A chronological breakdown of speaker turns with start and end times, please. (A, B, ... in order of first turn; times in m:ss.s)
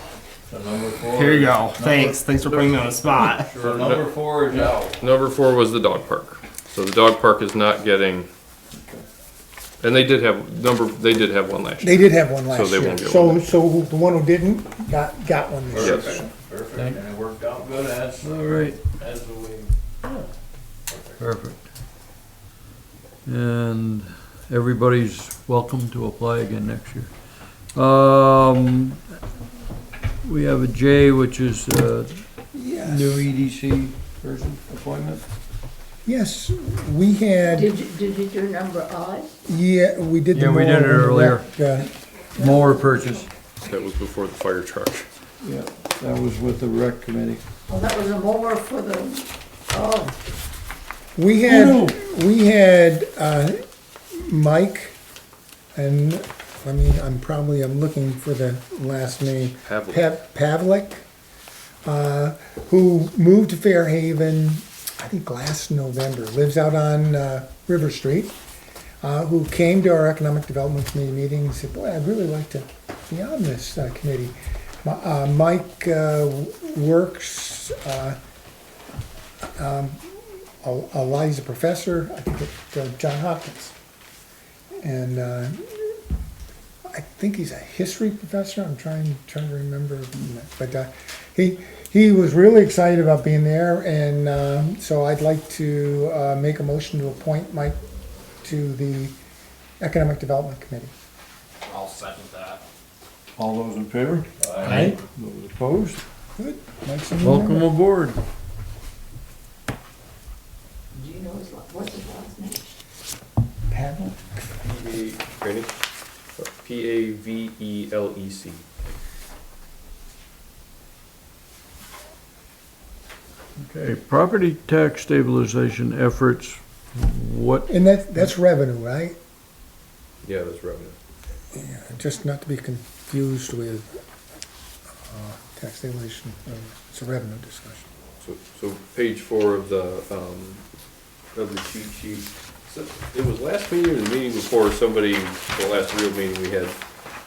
0:00.5-0:02.8 A
0:01.1-0:03.5 B
0:03.4-0:04.9 A
0:03.6-0:04.0 C
0:04.3-0:04.8 D
0:04.9-0:08.3 C
0:09.8-0:13.4 C
0:11.8-0:16.3 E
0:15.7-0:20.2 A
0:15.8-0:16.2 C
0:16.7-0:17.0 D
0:17.7-0:18.8 D
0:20.9-0:21.2 A
0:21.2-0:21.7 D
0:23.2-0:27.1 D
0:27.7-0:29.0 D
0:30.2-0:32.2 D
0:32.5-0:33.2 E
0:32.7-0:35.2 D
0:36.0-0:37.7 E
0:37.5-0:39.4 F
0:39.4-0:41.9 E
0:40.3-0:41.5 D
0:42.3-0:43.3 D
0:42.3-0:43.3 F
0:43.6-0:45.1 C
0:45.4-0:47.4 D
0:47.7-0:50.1 F
0:51.2-0:53.6 E
0:51.4-0:52.0 D
0:54.2-0:55.0 E
0:55.7-1:01.0 E
0:59.6-1:00.0 C
1:01.8-1:08.3 E
1:09.0-1:18.2 E
1:19.6-1:20.0 E
1:20.6-1:23.7 E
1:24.8-1:25.6 E
1:26.9-1:37.8 E
1:38.4-1:39.2 E
1:39.8-1:40.9 E
1:41.6-1:42.6 B
1:43.4-1:46.0 D
1:44.4-1:45.0 A
1:44.6-1:45.0 E
1:44.7-1:44.9 B
1:46.4-1:47.7 E
1:47.2-1:48.2 D
1:50.9-1:52.7 F
1:53.7-1:54.4 E
1:54.6-1:55.7 C
1:56.4-1:58.6 C
2:03.6-2:07.7 D
2:07.7-2:09.2 E
2:10.2-2:11.0 C
2:11.5-2:13.9 E
2:15.0-2:17.9 E
2:18.2-2:20.6 C
2:21.3-2:26.8 C